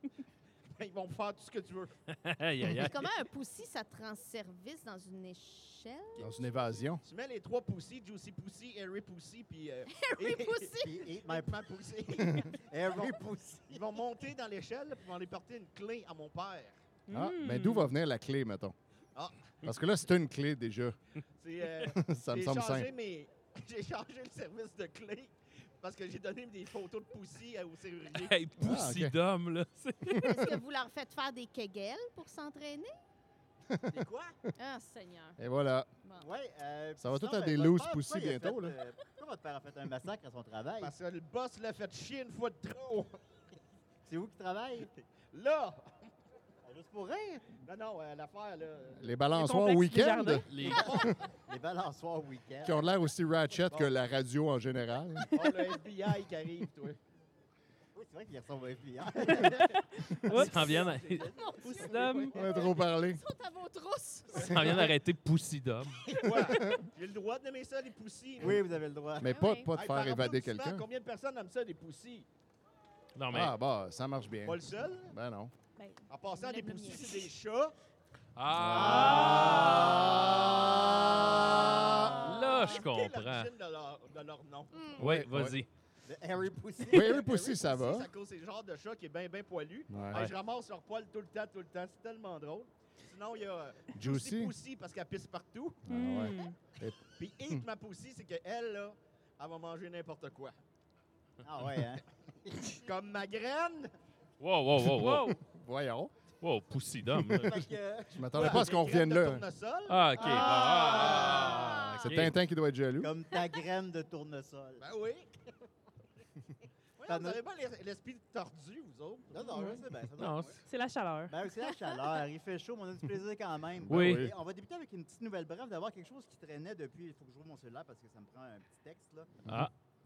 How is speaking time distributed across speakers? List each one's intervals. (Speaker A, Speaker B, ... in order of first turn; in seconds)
Speaker A: 0.7-1.9, 7.0-10.7, 11.2-13.2, 13.7-16.8, 19.1-19.6, 21.4-28.4, 33.9-34.4, 40.8-43.2, 45.3-46.1, 47.6-49.1, 50.5-51.3, 55.3-57.0, 59.3-62.5, 64.3-64.9, 66.2-68.6, 69.7-72.3, 74.4-75.1, 76.1-77.8, 79.2-79.5, 82.1-85.0, 87.1-95.8, 97.2-100.5, 102.8-103.9, 108.3-110.3, 114.8-115.3, 117.0-119.3
Speaker B: 2.1-3.1, 28.1-30.5, 50.5-50.9, 60.3-61.3, 64.4-66.0, 73.2-73.5, 78.4-80.1, 82.2-83.5, 85.0-85.7, 104.4-105.4, 106.4-107.7, 109.9-112.3, 120.2-120.6, 123.9-124.3, 129.5-129.7
Speaker C: 2.7-6.3, 9.9-11.0, 30.1-32.9, 34.5-35.4, 61.4-64.8, 69.3-69.7, 75.8-77.3, 82.1-82.8, 110.2-111.9
Speaker D: 6.2-7.0, 12.2-12.5, 17.1-18.8, 19.6-21.0, 21.9-22.9, 28.6-29.1, 33.7-34.0, 35.4-35.9, 37.0-38.8, 49.0-51.0, 52.6-55.5, 62.3-63.2, 64.6-64.9, 66.4-66.8, 69.2-70.9, 73.3-75.5, 78.8-80.7, 81.6-82.1, 85.0-85.6, 86.9-88.1, 89.9-90.3, 93.9-94.5, 95.9-97.6, 104.8-106.1, 107.2-107.6, 108.2-109.5, 111.4-113.1, 123.9-124.3
Speaker E: 10.8-11.6, 12.4-13.8, 36.2-40.9, 44.1-44.9, 46.6-47.6, 50.6-52.8, 58.0-60.1, 68.4-69.4, 78.5-82.2, 86.1-87.6, 101.4-102.8, 107.3-108.9, 110.2-111.9, 113.0-114.8, 117.1-117.4, 119.3-120.6, 121.3-129.3
Speaker F: 17.1-17.9, 49.3-50.5, 60.2-60.7, 61.7-62.3, 79.0-79.7, 95.9-96.6, 104.9-105.4, 119.5-119.8, 120.7-121.4